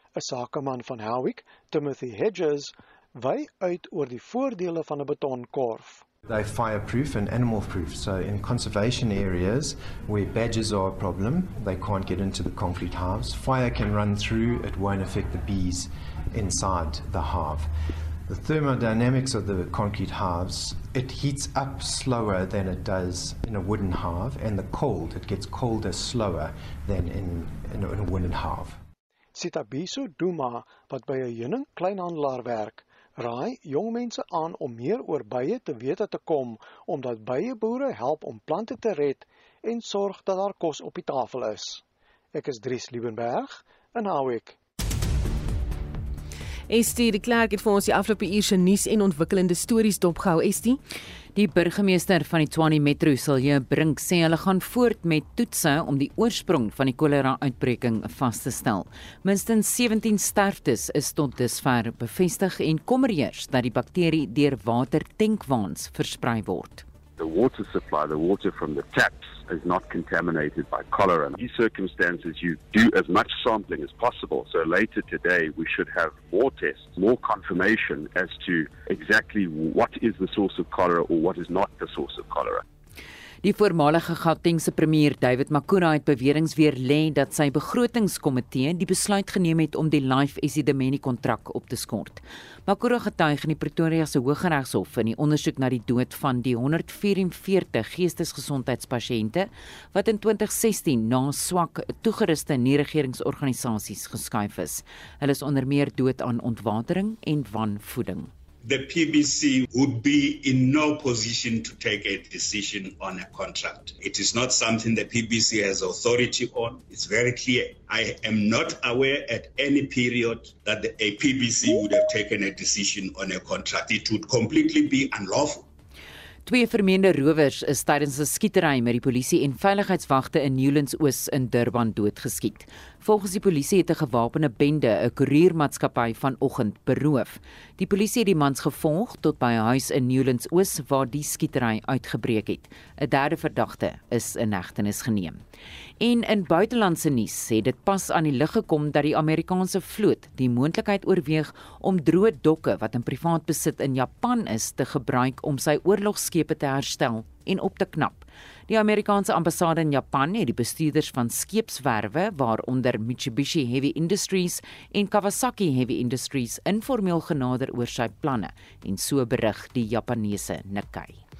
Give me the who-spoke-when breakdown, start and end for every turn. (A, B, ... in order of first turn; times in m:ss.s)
0:00.2-0:06.1 A
0:06.3-0:17.7 B
0:18.3-0:28.8 B
0:29.3-0:44.6 A
0:46.7-0:50.8 C
0:51.3-1:06.8 D
1:07.2-1:22.6 E
1:23.4-1:48.3 D
1:48.6-2:05.6 F
2:06.4-2:25.4 D
2:26.0-2:51.2 D